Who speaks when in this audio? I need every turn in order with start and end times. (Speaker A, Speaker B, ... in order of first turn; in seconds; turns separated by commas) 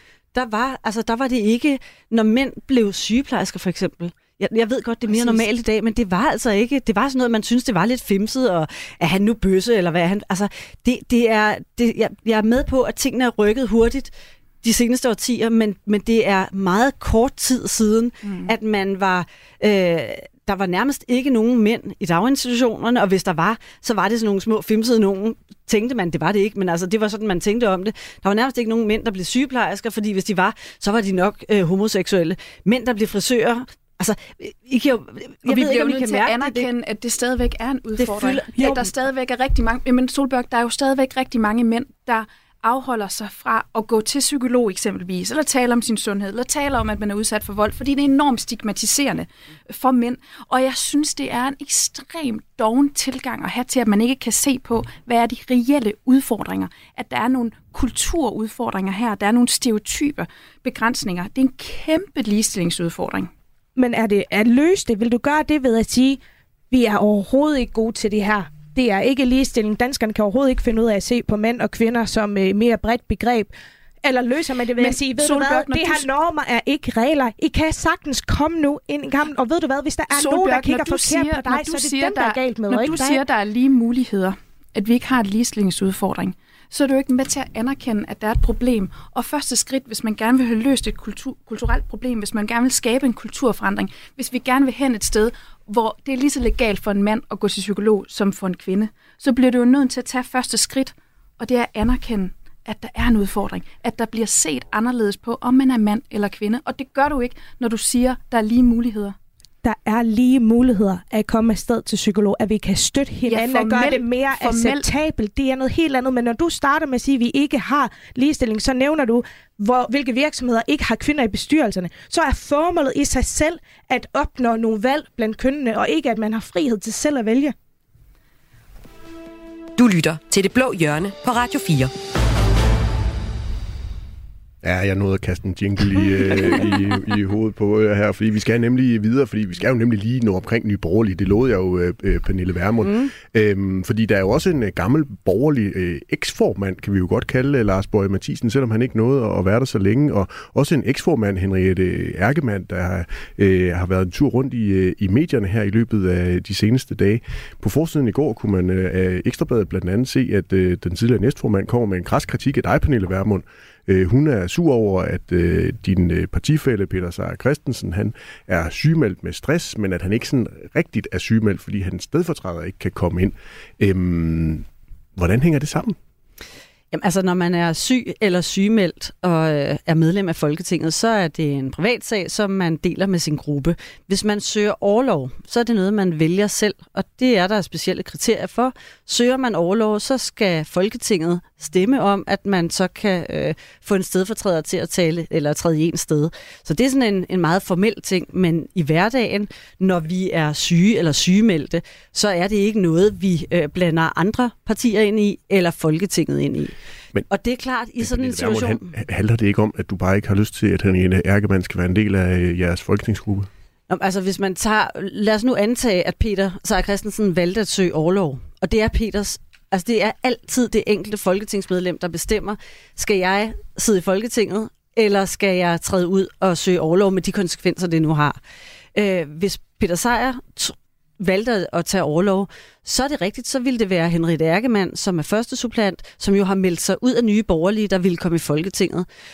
Speaker A: 0.3-36.7, Speaker B: 5.1-5.4, Speaker B: 18.2-18.5, Speaker B: 35.5-63.3, Speaker A: 38.0-38.9, Speaker C: 63.8-66.2, Speaker C: 66.7-73.5, Speaker C: 74.0-83.2, Speaker B: 74.8-76.1, Speaker B: 80.1-109.2, Speaker C: 109.6-127.5, Speaker B: 113.3-114.9, Speaker D: 129.8-131.9, Speaker E: 134.6-176.0, Speaker B: 136.2-136.6, Speaker A: 176.9-206.7, Speaker A: 207.3-208.9, Speaker E: 208.0-213.5, Speaker A: 213.9-228.4, Speaker A: 228.9-239.1